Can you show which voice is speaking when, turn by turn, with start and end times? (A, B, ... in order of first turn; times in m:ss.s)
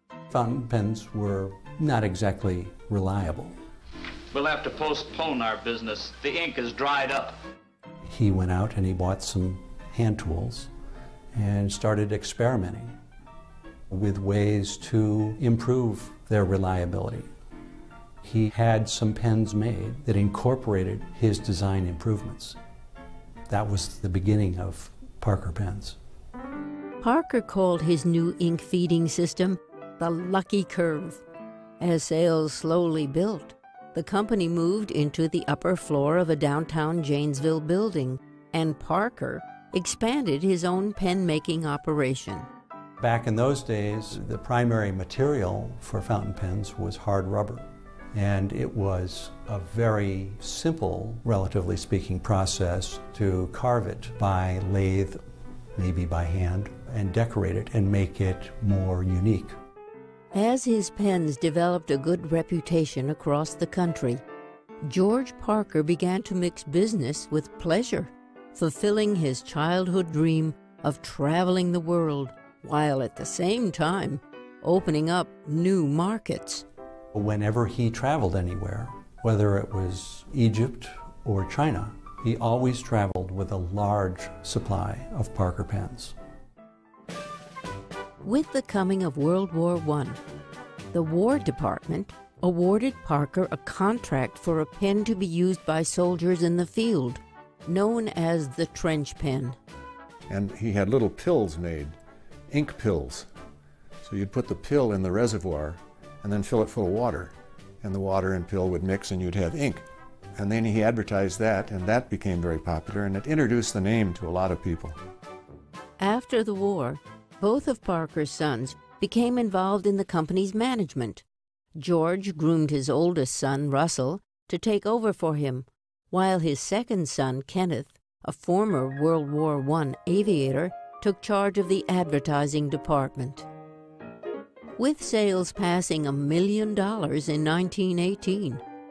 0:00.3-0:03.6 A
0:04.3-0:07.4 B
0:08.0-0:10.7 A
0:11.3-0:13.0 A
0:13.9-0:17.3 A
0:18.2-0:22.6 A
0:23.5-0:26.0 A
0:27.0-0:31.2 C
0:31.8-0:42.5 C
0:43.0-0:55.2 A
0:55.8-0:59.6 A
1:00.3-1:04.2 C
1:04.8-1:16.7 C
1:17.1-1:26.2 A
1:28.2-1:30.2 C
1:30.9-1:39.6 C
1:40.3-1:42.0 D
1:42.5-1:43.3 D
1:44.0-1:49.8 D
1:50.4-1:55.0 D
1:56.0-2:01.2 C
2:01.8-2:13.5 C
2:14.8-2:18.6 C